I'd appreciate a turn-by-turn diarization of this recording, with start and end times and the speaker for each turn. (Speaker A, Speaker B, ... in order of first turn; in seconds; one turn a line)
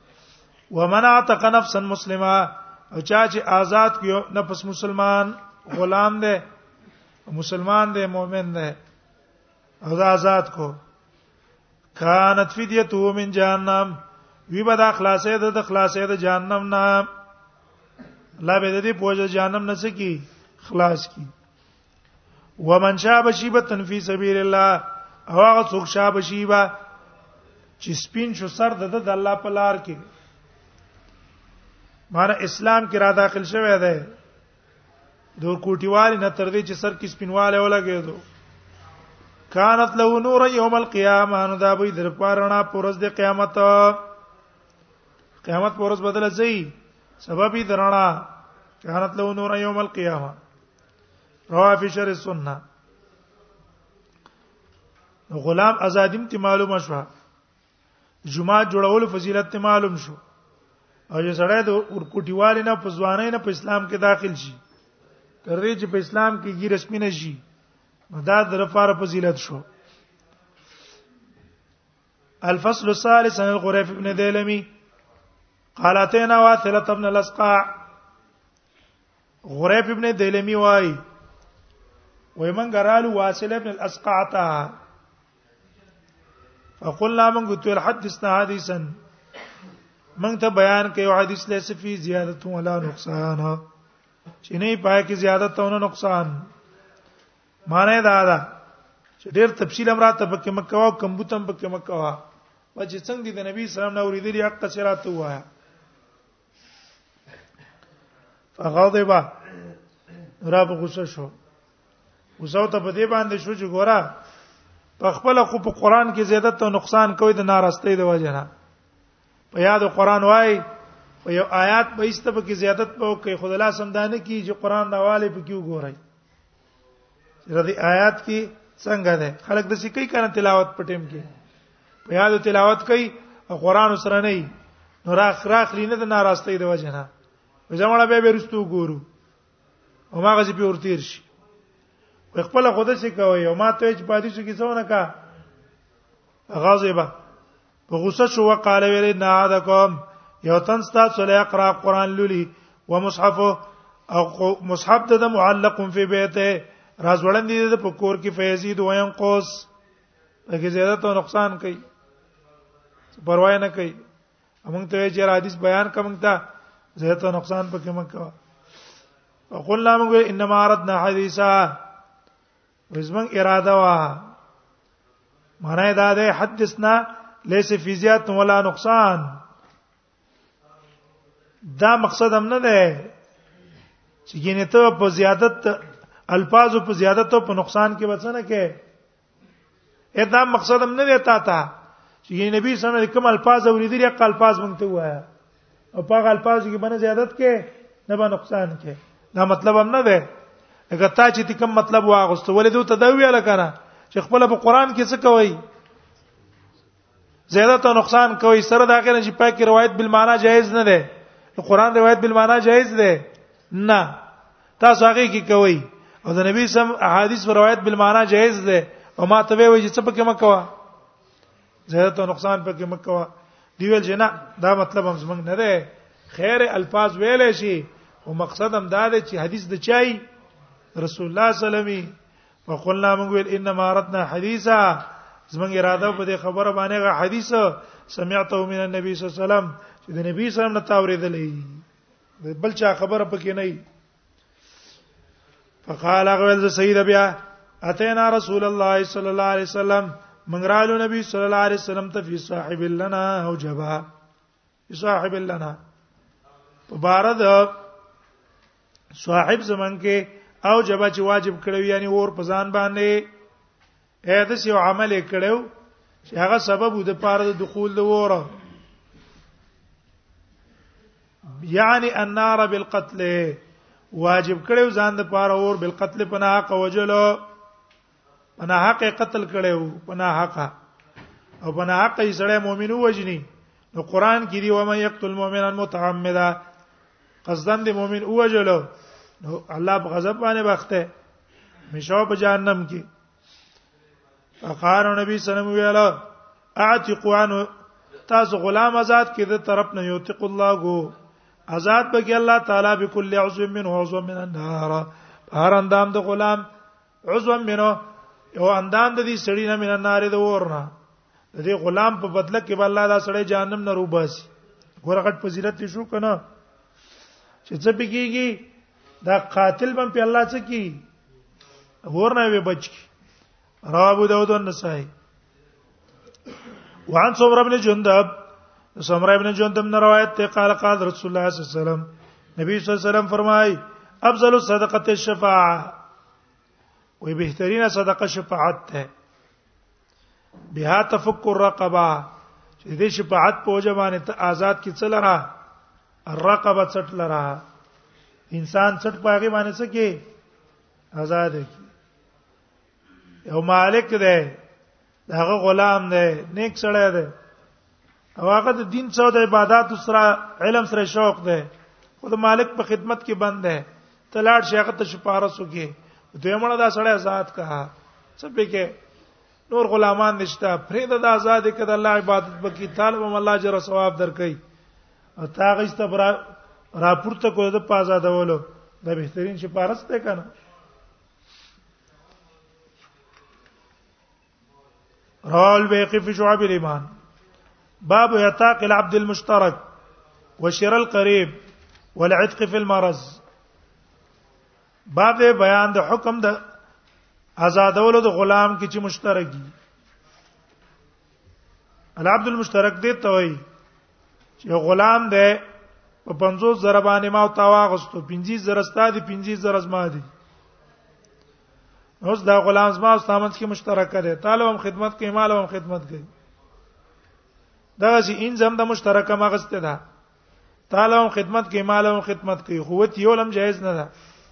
Speaker A: 0.7-6.5
Speaker A: 7.3-8.8
Speaker A: 9.8-10.8
Speaker A: 12.0-17.1
Speaker A: 18.4-21.3
Speaker A: 22.6-26.7
Speaker A: 27.8-30.0
Speaker A: 32.1-34.1
Speaker A: 35.4-38.2
Speaker A: 39.5-44.1
Speaker A: 45.4-50.4
Speaker A: 51.5-52.6
Speaker A: 55.3-57.1
Speaker A: 58.3-60.2
Speaker A: 61.1-64.6
Speaker A: 65.5-67.4
Speaker A: 68.1-69.7
Speaker A: 72.4-74.7
Speaker A: 75.8-77.7
Speaker A: 79.5-81.0
Speaker A: 82.4-84.7
Speaker A: 86.8-89.0
Speaker A: 90.2-93.7
Speaker A: 94.4-96.5
Speaker A: 97.7-98.5
Speaker A: 99.2-105.5
Speaker A: 108.6-109.3
Speaker A: 110.4-111.3
Speaker A: 112.4-114.2
Speaker A: 115.0-118.5
Speaker A: 119.5-120.7
Speaker A: 121.2-126.0
Speaker A: 127.5-131.3
Speaker A: 132.1-134.5
Speaker A: 135.0-137.1
Speaker A: 137.7-139.1
Speaker A: 140.1-141.3
Speaker A: 142.3-145.1
Speaker A: 146.5-147.1
Speaker A: 147.9-159.7
Speaker A: 160.5-161.8
Speaker A: 163.2-164.0
Speaker A: 164.7-166.4
Speaker A: 167.0-168.3
Speaker A: 169.5-171.8
Speaker A: 172.9-174.3
Speaker A: 175.6-179.4
Speaker A: 181.7-183.1
Speaker A: 184.3-188.8
Speaker A: 190.2-191.7
Speaker A: 192.3-195.3
Speaker A: 195.9-200.3
Speaker A: 200.9-205.6
Speaker A: 207.5-214.2
Speaker A: 214.8-220.7
Speaker A: 221.9-230.2
Speaker A: 231.0-232.1
Speaker A: 232.7-241.8
Speaker A: 242.4-243.8
Speaker A: 245.8-254.1
Speaker A: 254.9-255.8
Speaker A: 256.9-257.8
Speaker A: 259.1-263.3
Speaker A: 264.3-265.7
Speaker A: 266.3-268.5
Speaker A: 271.6-273.6
Speaker A: 274.1-277.4
Speaker A: 278.6-280.7
Speaker A: 281.6-286.6
Speaker A: 287.4-288.9
Speaker A: 289.4-291.1
Speaker A: 291.9-293.1
Speaker A: 294.6-296.2
Speaker A: 296.8-297.7
Speaker A: 298.3-301.1
Speaker A: 301.7-306.7
Speaker A: 307.3-308.0
Speaker A: 308.6-310.9
Speaker A: 311.5-314.5
Speaker A: 315.0-316.4
Speaker A: 317.7-318.7
Speaker A: 319.2-321.1
Speaker A: 322.1-323.1
Speaker A: 323.9-325.1
Speaker A: 327.1-328.4
Speaker A: 329.0-336.0
Speaker A: 337.2-339.1
Speaker A: 340.7-342.3
Speaker A: 342.8-345.5
Speaker A: 346.3-347.6
Speaker A: 348.5-350.2
Speaker A: 351.1-351.9
Speaker A: 353.5-354.6
Speaker A: 355.3-357.3
Speaker A: 358.4-369.0
Speaker A: 369.7-374.6
Speaker A: 375.4-380.5
Speaker A: 385.5-387.1
Speaker A: 388.1-389.9
Speaker A: 390.6-391.5
Speaker A: 392.2-393.4
Speaker A: 395.1-396.6
Speaker A: 397.6-399.7
Speaker A: 402.2-403.6
Speaker A: 404.6-405.6
Speaker A: 406.2-410.3
Speaker A: 412.2-416.3
Speaker A: 418.0-420.0
Speaker A: 420.9-424.1